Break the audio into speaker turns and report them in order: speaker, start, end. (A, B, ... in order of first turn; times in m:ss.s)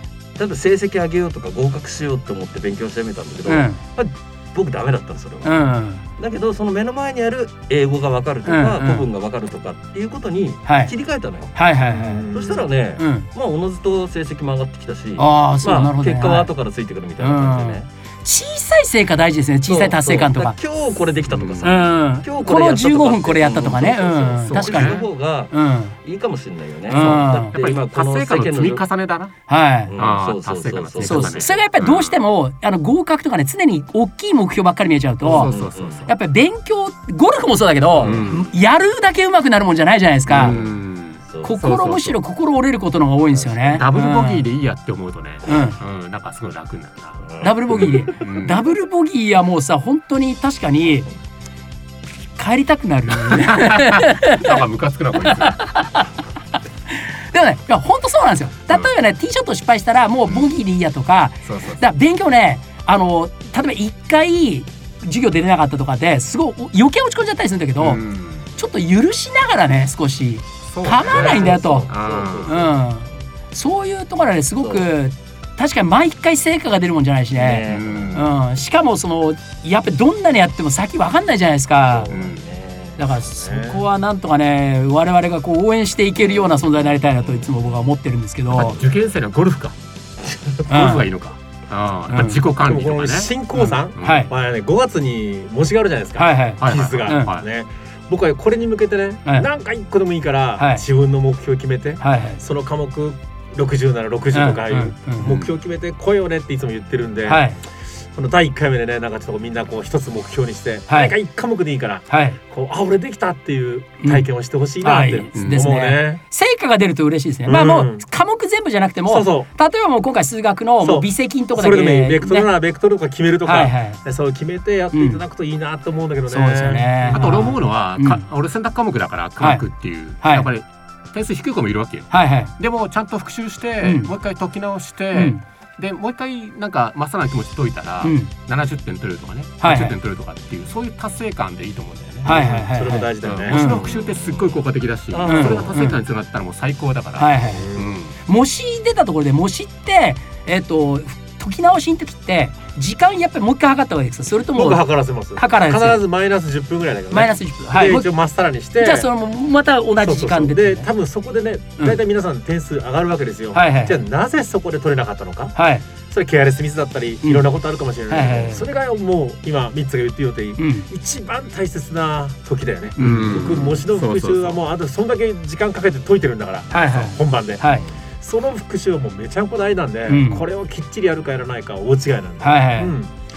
0:00.4-0:05.6 A
0:03.5-0:03.8 B
0:05.4-0:06.0 B
0:06.2-0:11.6 A
0:08.4-0:09.0 B
0:10.6-0:10.9 B
0:11.5-0:12.2 B
0:11.9-0:12.7 C
0:12.3-0:17.9 A
0:13.0-0:13.3 B
0:15.2-0:16.5 B
0:17.2-0:20.6 B
0:19.7-0:28.8 A
0:21.3-0:21.8 D
0:21.6-0:25.9 B
0:24.4-0:25.0 D
0:26.9-0:27.5 B
0:26.9-0:29.3 D
0:29.5-0:29.9 B
0:29.9-0:31.5 A
0:30.0-0:32.2 D
0:31.0-0:35.5 B
0:35.2-0:36.1 D
0:35.2-0:36.0 A
0:36.1-0:40.6 B
0:38.0-0:38.2 A
0:38.0-0:38.5 D
0:40.3-0:42.2 D
0:40.3-0:40.7 A
0:41.2-0:41.5 A
0:41.4-0:44.4 B
0:43.3-0:43.8 A
0:43.7-0:48.6 D
0:45.4-0:45.8 B
0:47.4-0:51.1 B
0:52.4-0:54.6 B
0:53.3-0:55.6 D
0:55.2-0:56.1 B
0:57.3-1:08.0 B
1:01.4-1:01.8 D
1:07.8-1:08.5 D
1:08.6-1:11.9 B
1:10.6-1:12.7 D
1:10.9-1:12.8 A
1:12.4-1:22.1 B
1:14.6-1:14.9 A
1:17.3-1:18.1 A
1:17.6-1:18.3 D
1:21.9-1:23.2 A
1:22.1-1:22.4 D
1:23.0-1:28.8 B
1:23.4-1:23.8 C
1:28.5-1:29.8 D
1:30.7-1:31.1 B
1:30.7-1:33.3 D
1:32.1-1:32.4 B
1:32.6-1:47.4 C
1:33.5-1:34.3 B
1:34.0-1:34.2 D
1:36.2-1:37.3 B
1:36.6-1:37.4 D
1:40.6-1:40.8 B
1:42.0-1:42.4 B
1:44.3-1:45.3 B
1:45.2-1:45.5 D
1:47.3-1:47.6 B
1:48.1-1:56.2 C
1:50.9-1:51.1 B
1:52.1-1:52.4 B
1:54.8-2:02.5 B
1:55.4-1:55.7 D
1:57.4-1:58.0 C
1:59.1-1:59.5 C
2:00.8-2:07.4 C
2:03.4-2:04.0 B
2:04.9-2:05.2 B
2:06.3-2:08.2 B
2:07.1-2:22.6 D
2:09.4-2:09.6 B
2:10.2-2:10.5 B
2:12.1-2:12.5 B
2:13.8-2:14.1 B
2:15.1-2:15.4 B
2:18.0-2:18.3 B
2:19.6-2:19.9 B
2:22.2-2:23.7 C
2:22.2-2:23.9 B
2:23.2-2:28.1 D
2:25.1-2:25.8 A
2:25.2-2:26.0 B
2:27.2-2:27.7 B
2:27.5-2:27.9 C
2:28.2-2:36.0 B
2:34.5-2:39.1 C
2:37.1-2:38.1 B
2:38.8-2:40.9 B
2:40.0-2:45.5 C
2:43.5-2:44.0 B
2:45.5-2:45.8 B
2:46.1-3:03.1 C
2:48.1-2:48.6 B
2:50.6-2:50.9 B
2:53.0-2:53.7 B
2:53.0-2:54.6 D
2:56.7-2:57.9 B
3:00.1-3:00.4 B
3:02.4-3:02.9 B